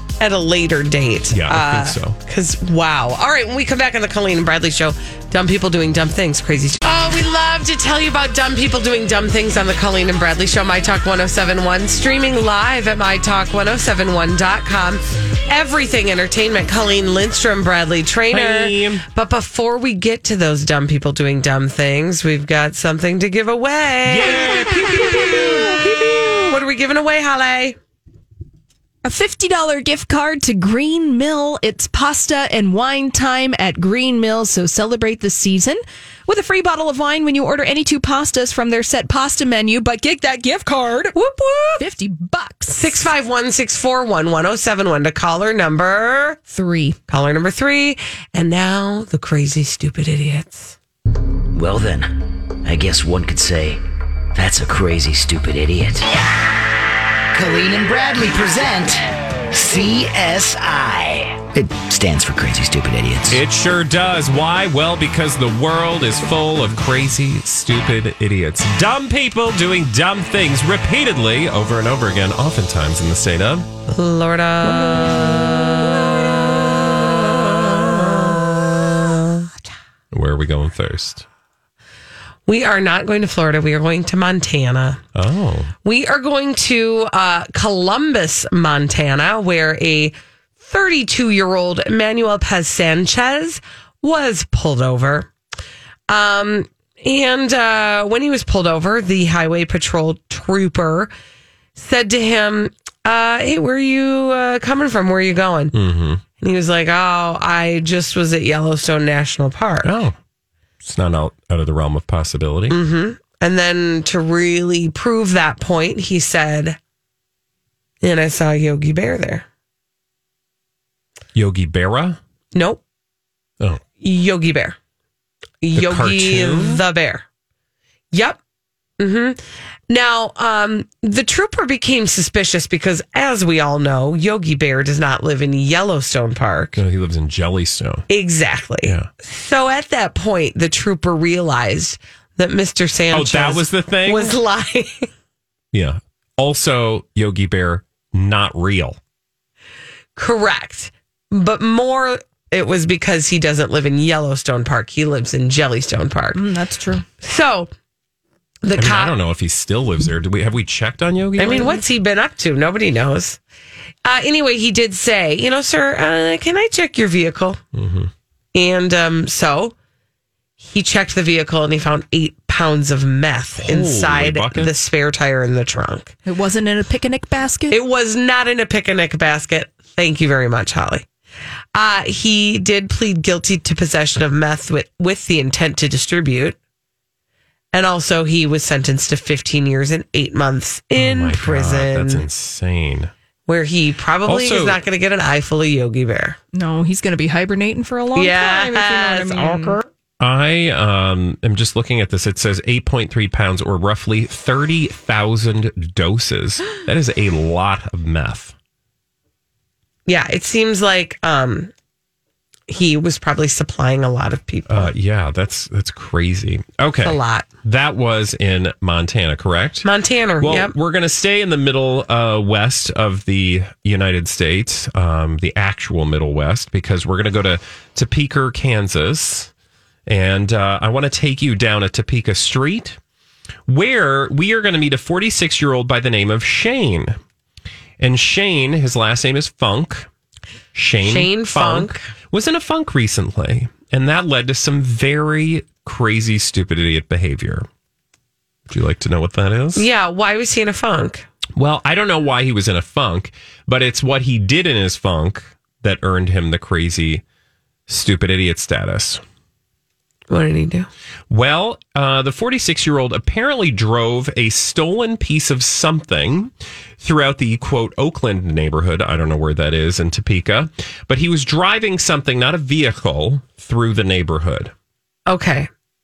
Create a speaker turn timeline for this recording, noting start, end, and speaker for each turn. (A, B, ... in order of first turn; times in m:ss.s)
0:00.2-0:27.8 A
0:01.3-0:02.2 B
0:18.3-0:19.0 B
0:24.1-0:25.4 B
0:29.0-0:43.1 C
0:42.7-0:46.4 A
0:46.5-0:47.0 C
0:47.1-0:50.8 A
0:51.5-0:53.8 D
0:54.3-0:56.2 D
0:57.3-1:03.4 D
1:03.3-1:13.7 B
1:13.9-1:15.3 A
1:14.6-1:18.4 B
1:20.1-1:21.2 B
1:22.5-1:25.0 A
1:25.2-1:25.7 B
1:25.8-1:35.3 A
1:36.1-1:41.1 A
1:41.8-1:45.7 A
1:45.7-1:46.2 B
1:46.4-1:49.9 A
1:49.8-1:50.2 B
1:50.8-1:52.8 B
1:52.7-1:56.8 A
1:58.0-1:59.5 A
2:01.4-2:02.2 B
2:02.6-2:02.8 A
2:04.0-2:04.8 A
2:05.6-2:07.2 A
2:05.8-2:06.8 B
2:08.1-2:08.4 A
2:09.0-2:16.8 A
2:16.8-2:18.1 B
2:18.1-2:25.1 A
2:23.1-2:24.4 B
2:25.7-2:29.0 B
2:30.2-2:36.4 A
2:36.3-2:37.0 C
2:37.2-2:37.7 A
2:38.6-2:39.1 A
2:38.8-2:41.8 B
2:41.4-2:43.4 A
2:44.0-2:47.6 A
2:47.8-2:48.1 B
2:48.5-2:49.7 A
2:50.6-2:56.1 A
2:53.6-2:54.7 B
2:56.3-2:57.8 C
2:57.7-3:01.1 A
3:01.8-3:06.6 A
3:07.7-3:12.2 A
3:11.0-3:13.1 B
3:13.5-3:16.4 A
3:14.2-3:14.8 B
3:16.5-3:19.8 C
3:18.2-3:19.9 A
3:20.2-3:28.5 B
3:30.1-3:31.7 A
3:32.7-3:34.9 A
3:34.7-3:39.9 B
3:37.0-3:37.5 A
3:39.8-3:40.7 A
3:40.4-3:49.5 B
3:50.1-3:53.0 B
3:53.7-3:57.2 B
3:58.0-4:00.1 B
4:00.7-4:07.7 B
4:01.0-4:02.0 A
4:08.7-4:09.9 B
4:09.8-4:11.2 A
4:11.6-4:17.2 B
4:17.9-4:19.2 B
4:20.3-4:20.9 A
4:21.3-4:34.7 B
4:35.3-4:35.7 A